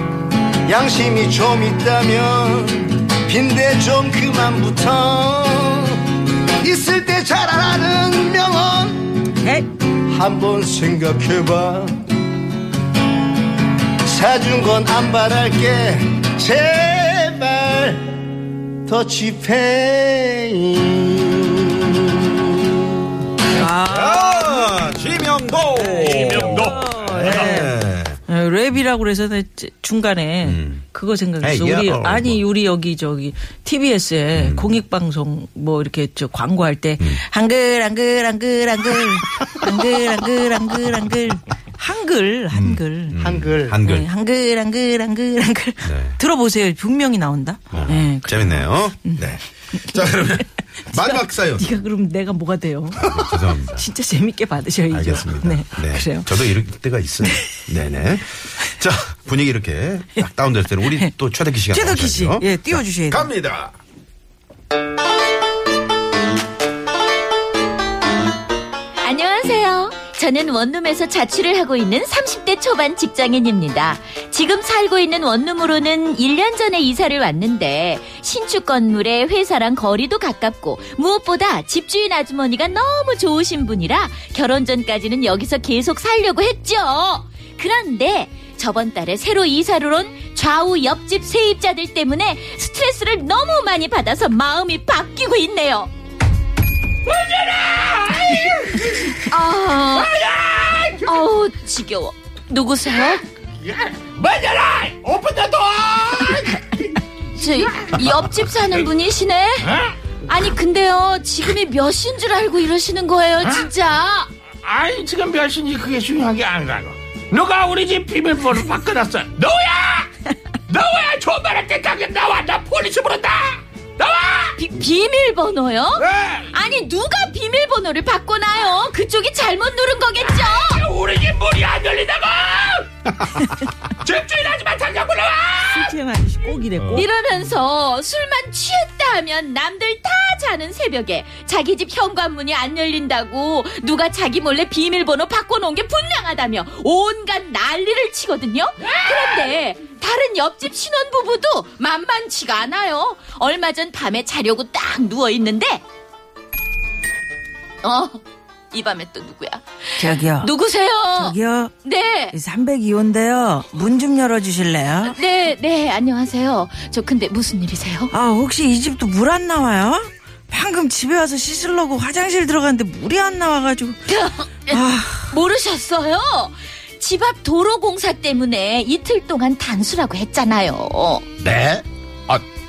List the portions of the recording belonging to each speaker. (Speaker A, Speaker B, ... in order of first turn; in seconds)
Speaker A: 0.7-6.0, 6.6-9.2, 10.1-12.0, 14.0-18.1, 18.9-21.9, 43.2-43.8
Speaker B: 9.4-9.7, 23.5-24.9, 25.7-43.2, 43.8-49.4, 50.9-56.5, 61.7-63.3, 135.5-137.1, 160.0-160.5, 161.0-161.8, 162.3-165.2, 168.1-174.1, 174.7-175.3
Speaker C: 23.8-28.2, 30.4-30.8, 31.4-32.4, 34.3-34.8, 42.5-44.1, 45.8-46.2, 47.7-51.6, 53.0-53.9, 54.9-63.7, 136.8-137.1, 181.4-182.4
Speaker D: 26.0-27.6, 97.1-99.2, 99.9-101.2, 103.7-106.7, 114.6-120.1, 120.7-124.6, 126.0-126.5, 130.4-132.9, 134.0-135.9
Speaker E: 69.0-95.9, 99.2-100.2, 101.0-103.2, 107.3-109.7, 110.3-114.3, 124.6-130.9, 136.9-155.8, 157.8-159.6, 160.3-162.3, 165.1-168.1, 174.1-181.2